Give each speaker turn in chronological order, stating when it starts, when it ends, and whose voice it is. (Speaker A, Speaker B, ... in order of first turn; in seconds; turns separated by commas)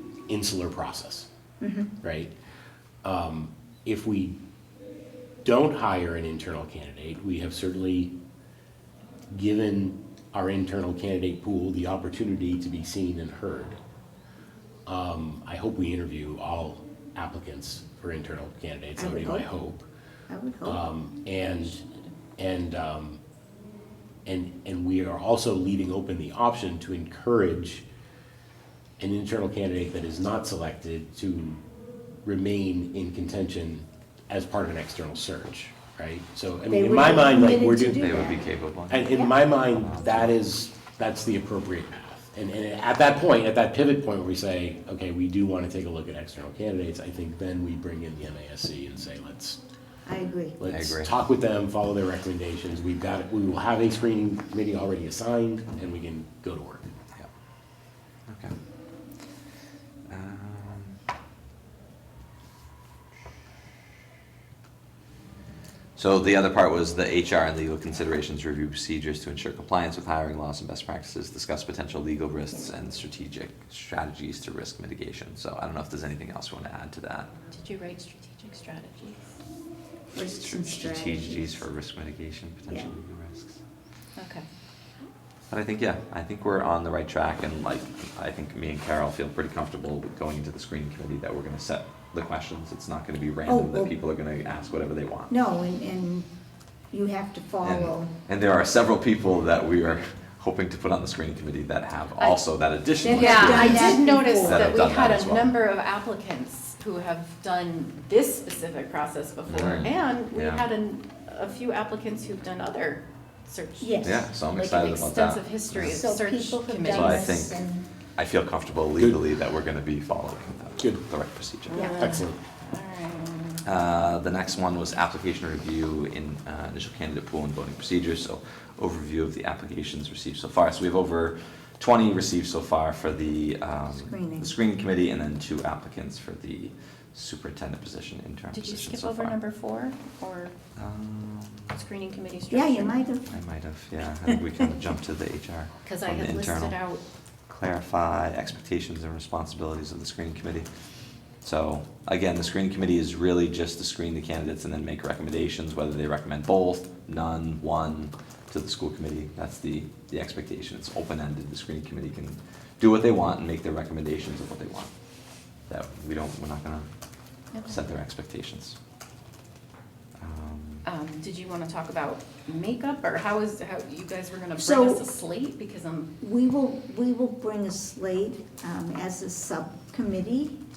Speaker A: 0.3-1.3, Speaker B: 1.6-1.9, Speaker A: 2.0-2.3, Speaker A: 3.0-4.3, Speaker A: 5.4-8.1, Speaker A: 9.3-13.8, Speaker A: 14.9-19.9, Speaker B: 19.0-19.5, Speaker B: 20.3-20.8, Speaker A: 20.6-21.8, Speaker A: 22.4-23.2, Speaker A: 24.2-27.8, Speaker A: 29.0-31.6, Speaker A: 32.2-38.0, Speaker B: 36.7-38.5, Speaker C: 38.0-39.1, Speaker A: 38.9-49.6, Speaker B: 39.1-39.4, Speaker C: 39.7-40.2, Speaker B: 50.0-50.6, Speaker A: 50.6-56.9, Speaker C: 50.7-51.1, Speaker C: 58.3-58.5, Speaker C: 60.1-61.0, Speaker C: 66.0-77.3, Speaker D: 77.5-79.2, Speaker B: 80.1-81.6, Speaker C: 80.3-83.6, Speaker D: 84.2-84.5, Speaker C: 85.5-95.3, Speaker B: 93.5-93.9, Speaker B: 95.3-96.3, Speaker B: 96.9-98.1, Speaker C: 97.6-105.5, Speaker B: 103.0-104.7, Speaker D: 103.0-117.4, Speaker C: 109.5-110.6, Speaker B: 113.8-114.5, Speaker C: 114.0-116.0, Speaker B: 115.8-117.9, Speaker C: 116.9-117.6, Speaker C: 118.2-121.8, Speaker D: 121.7-123.6, Speaker B: 121.7-122.2, Speaker A: 122.0-122.4, Speaker C: 123.6-139.4, Speaker B: 134.1-134.5, Speaker D: 138.5-140.5, Speaker C: 140.8-141.8, Speaker D: 141.7-142.9, Speaker B: 142.5-143.3, Speaker C: 143.3-146.8, Speaker D: 145.8-147.0, Speaker C: 147.5-150.7, Speaker C: 151.4-164.9, Speaker C: 165.7-166.9, Speaker D: 167.5-167.8, Speaker C: 167.6-168.8, Speaker C: 170.2-170.8, Speaker D: 170.8-176.1, Speaker B: 174.6-175.1, Speaker B: 176.2-180.6